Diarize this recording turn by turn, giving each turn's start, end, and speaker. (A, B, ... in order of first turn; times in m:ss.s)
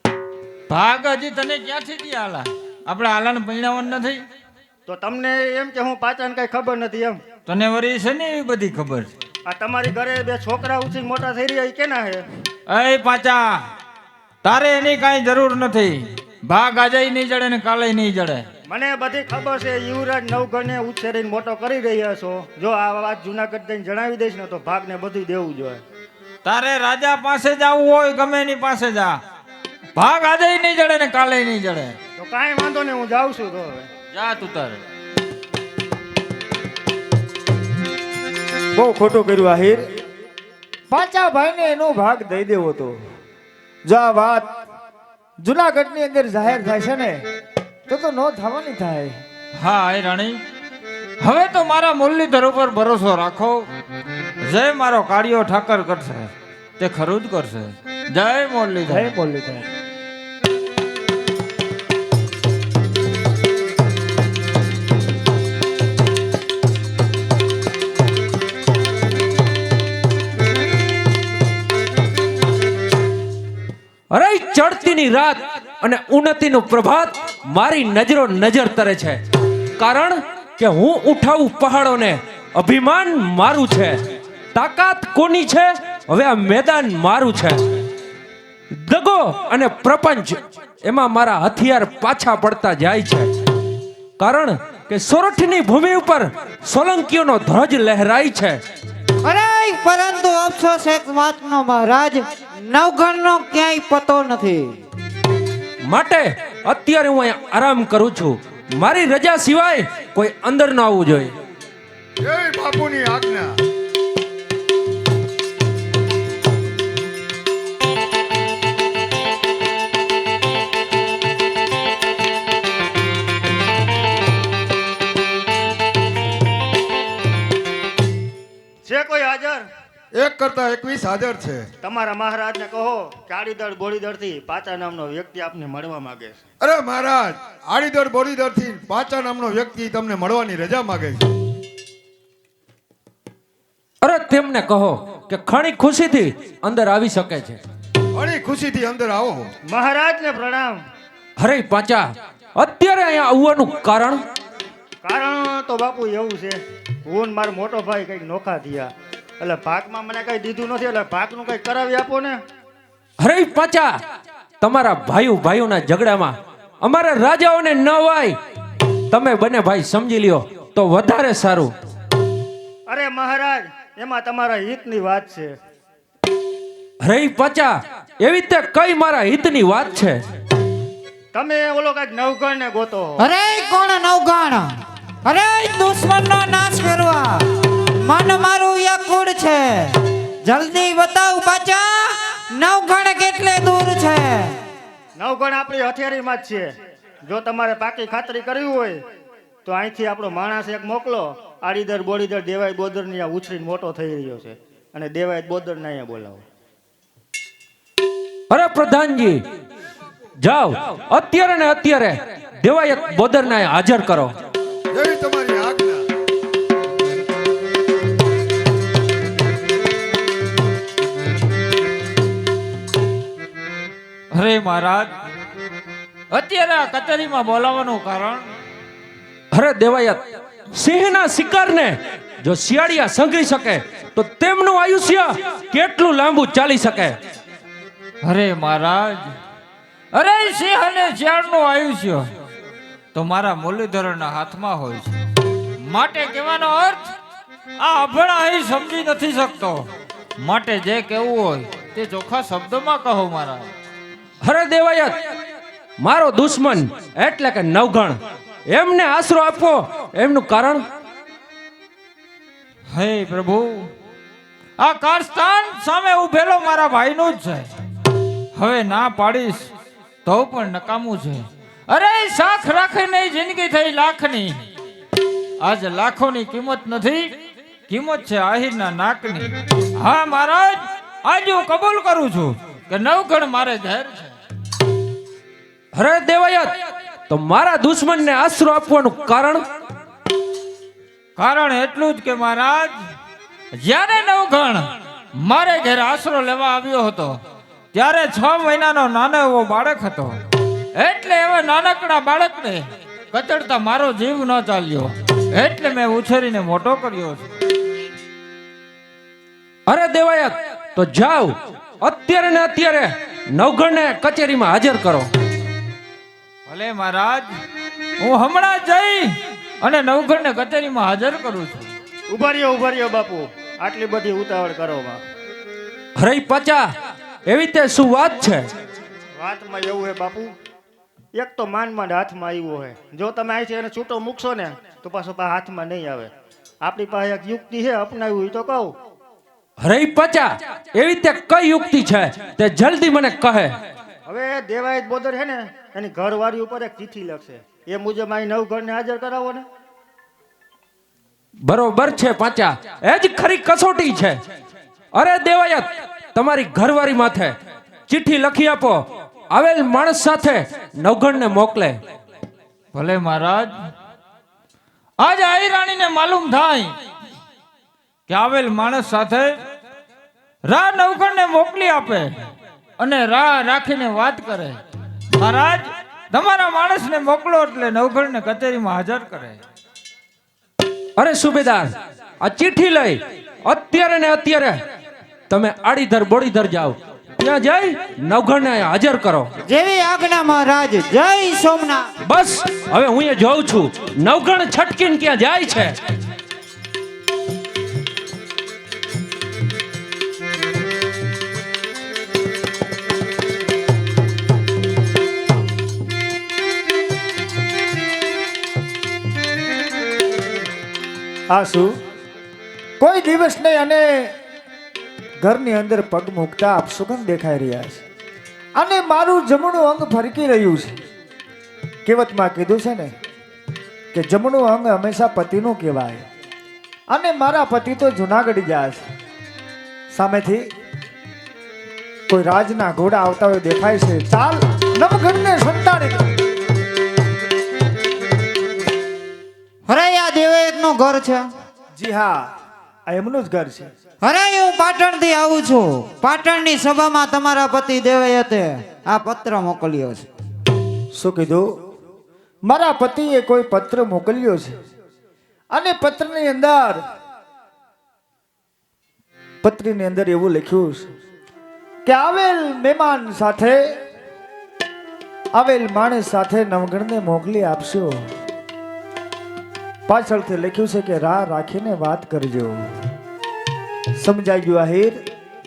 0:00.7-0:04.2 A
0:04.8-0:07.2 B
0:07.5-0:09.1 A
0:09.4-0:12.2 B
0:12.7-0:13.6 A
0:14.4-0:18.5 A
0:18.7-0:25.8 B
0:26.4-0:29.2 A
0:29.9-0:32.0 A
0:32.2-0:33.9 B
0:34.1-0:34.8 A
0:38.7-0:39.8 C
0:40.9-0:43.0 C
0:43.9-0:44.5 C
0:45.4-0:47.2 C
0:47.9-0:49.2 C
0:49.6-0:50.4 A
0:51.2-0:53.7 A
0:54.4-0:59.1 A
0:58.9-0:59.6 C
1:14.1-1:19.2 D
1:19.8-1:24.0 D
1:24.5-1:27.6 D
1:28.7-1:33.3 D
1:34.2-1:38.6 D
1:39.2-1:44.8 E
1:45.8-1:51.3 D
1:52.2-1:53.5 F
2:08.8-2:09.6 B
2:10.1-2:11.7 F
2:11.8-2:16.4 B
2:16.6-2:21.3 F
2:24.0-2:27.6 D
2:28.1-2:29.5 F
2:29.7-2:30.8 B
2:31.4-2:34.2 D
2:35.0-2:42.4 B
2:43.2-2:43.9 D
2:44.6-2:48.4 D
2:49.1-2:51.7 D
2:52.9-2:55.5 B
2:57.0-3:00.2 D
3:01.3-3:03.3 B
3:03.2-3:07.4 E
3:08.0-3:14.6 E
3:15.2-3:16.7 B
3:17.2-3:19.0 B
3:19.6-3:26.4 B
3:28.5-3:29.4 D
3:30.4-3:34.3 D
3:34.9-3:36.0 F
3:44.3-3:45.1 A
3:46.3-3:48.5 A
3:49.5-3:57.2 D
3:58.2-3:59.3 A
4:00.1-4:02.3 A
4:03.1-4:05.2 A
4:05.8-4:07.1 A
4:07.8-4:09.9 A
4:10.4-4:13.7 A
4:14.4-4:15.2 D
4:16.0-4:18.2 D
4:18.7-4:20.8 D
4:22.9-4:23.9 A
4:24.8-4:27.7 A
4:28.5-4:29.7 A
4:30.2-4:34.6 A
4:35.6-4:37.3 A
4:37.9-4:44.4 A
4:45.9-4:46.8 D
4:47.3-4:49.6 D
4:51.4-4:52.9 A
4:53.7-4:57.4 A
4:57.9-5:00.4 A
5:00.9-5:07.5 A
5:09.9-5:15.3 D
5:16.7-5:17.5 A
5:18.2-5:21.9 A
5:22.3-5:25.2 B
5:26.2-5:26.9 D
5:27.4-5:28.7 D
5:29.3-5:30.5 B
5:31.3-5:36.3 B
5:36.8-5:38.9 B
5:39.8-5:43.7 D
5:44.2-5:49.6 B
5:51.6-5:54.4 D
5:55.2-5:57.6 D
5:58.1-6:02.0 D
6:02.9-6:03.7 A
6:05.2-6:07.0 A
6:08.3-6:09.5 A
6:10.6-6:12.3 A
6:13.0-6:14.8 A
6:15.3-6:19.6 A
6:21.2-6:24.8 D
6:25.5-6:29.5 D
6:29.6-6:32.1 E
6:32.2-6:35.9 D
6:51.5-6:51.9 C
6:53.0-6:54.3 C
6:55.4-6:58.0 C
6:58.8-7:00.9 C
7:02.0-7:03.1 C
7:04.1-7:06.2 C
7:07.1-7:09.0 C
7:10.1-7:10.6 C
7:12.3-7:16.2 C
7:19.9-7:21.5 E
7:22.0-7:22.4 C
7:23.1-7:23.9 C
7:24.2-7:30.2 E
7:31.1-7:31.7 C
7:32.6-7:34.7 C
7:35.7-7:37.0 C
7:39.6-7:41.1 C
7:42.0-7:43.8 C
7:45.5-7:48.2 C
7:50.1-7:52.8 C
7:54.2-7:55.2 C